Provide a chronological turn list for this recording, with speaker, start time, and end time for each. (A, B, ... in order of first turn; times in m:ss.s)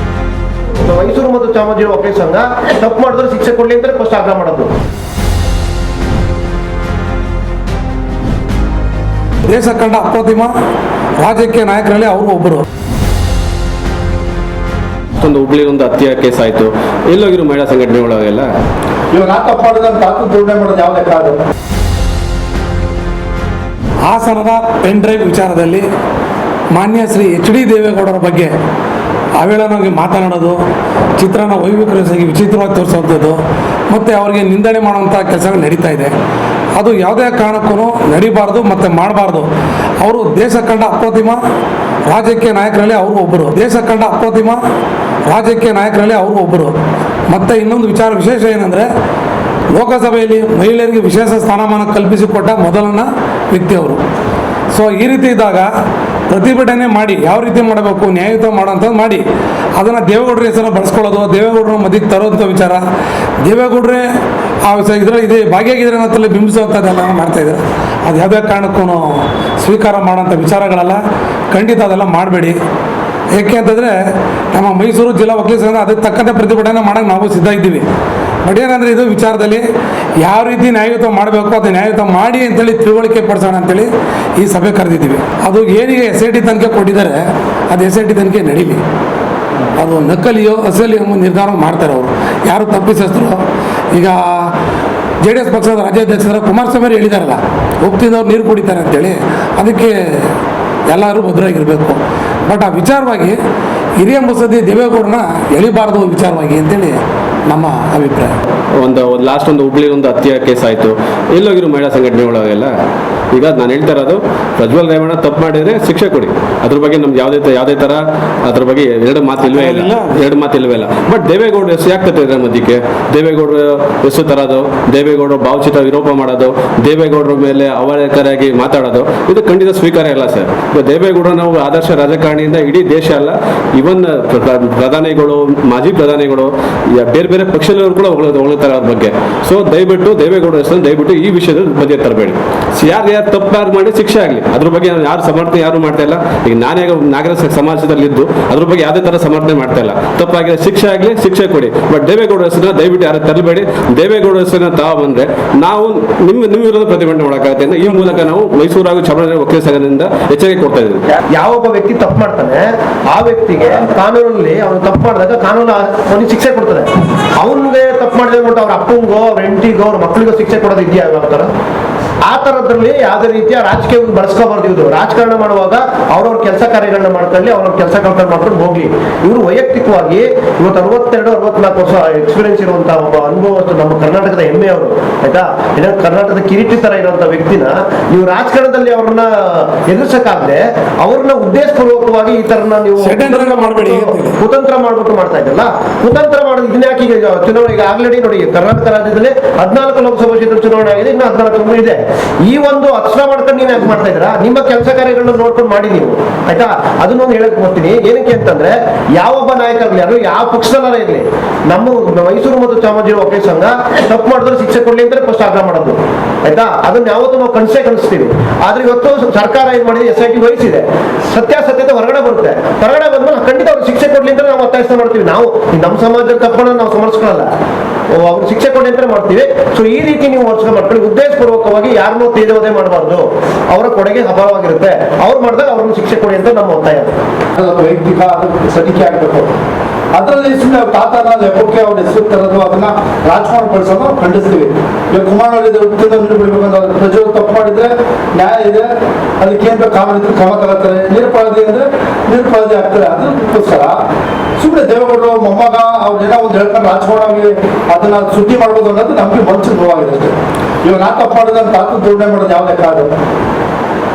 0:00.8-0:04.7 A
0:09.4-0:10.5 B
0:11.2-0:12.6 B
0:15.2-0:18.5 C
0:19.1-0:21.4 D
0:24.0-0:25.8 B
0:26.7-0:28.5 B
0:29.4-0:30.6 B
0:31.2-0:36.1 B
0:36.8-0:39.5 B
0:40.0-0:41.4 B
0:42.1-0:44.6 B
0:45.3-0:46.7 B
0:47.3-0:48.9 B
0:49.7-0:54.0 B
0:54.7-0:55.7 B
0:56.3-0:59.2 B
0:59.8-1:02.8 B
1:03.4-1:04.0 B
1:04.6-1:11.0 B
1:11.5-1:12.6 B
1:13.3-1:14.0 B
1:14.5-1:17.9 B
1:18.4-1:19.6 B
1:20.2-1:28.8 B
1:29.7-1:33.4 B
1:33.9-1:34.5 B
1:35.2-1:39.9 B
1:40.9-1:43.4 B
1:44.0-1:48.4 B
1:48.8-1:52.7 C
1:53.3-2:41.0 C
1:59.5-2:00.2 B
2:41.4-2:51.5 A
2:52.2-3:47.5 A
3:13.0-3:14.4 B
3:48.1-3:57.1 A
3:57.6-3:59.5 D
4:00.1-4:08.9 D
4:09.4-4:14.0 D
4:14.6-4:23.1 D